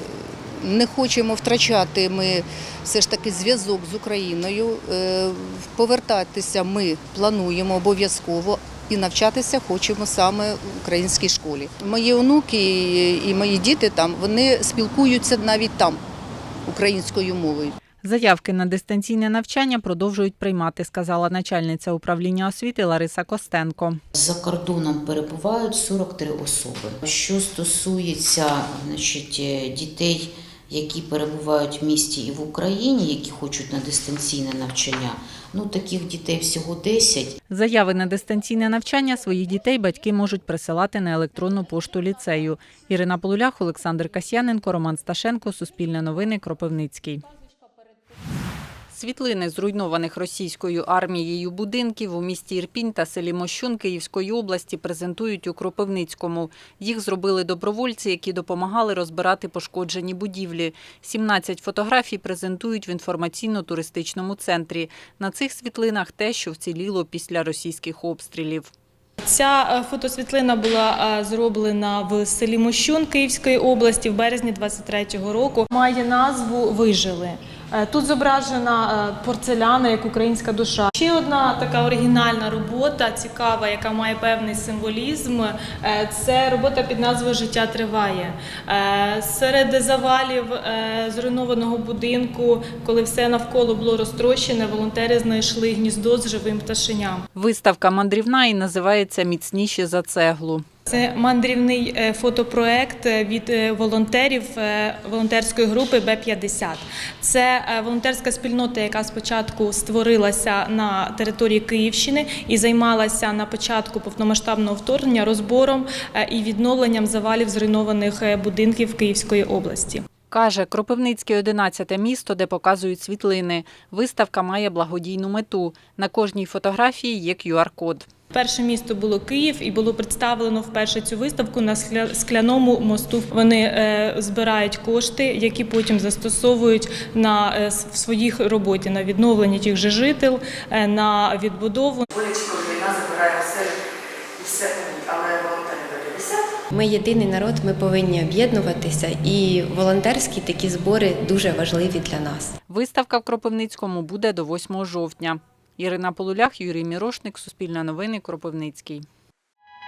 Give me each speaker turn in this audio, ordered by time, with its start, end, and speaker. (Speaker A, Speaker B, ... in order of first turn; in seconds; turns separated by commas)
Speaker A: 0.7-16.0, Speaker A: 16.7-17.7, Speaker B: 18.0-24.0, Speaker C: 24.1-37.4, Speaker B: 37.5-47.2, Speaker B: 48.9-68.7, Speaker D: 69.2-97.2, Speaker B: 97.3-100.7, Speaker D: 100.9-120.0, Speaker B: 120.3-128.1, Speaker D: 128.3-142.0, Speaker E: 142.2-143.7, Speaker E: 144.4-146.4, Speaker F: 146.8-152.5, Speaker B: 152.7-159.0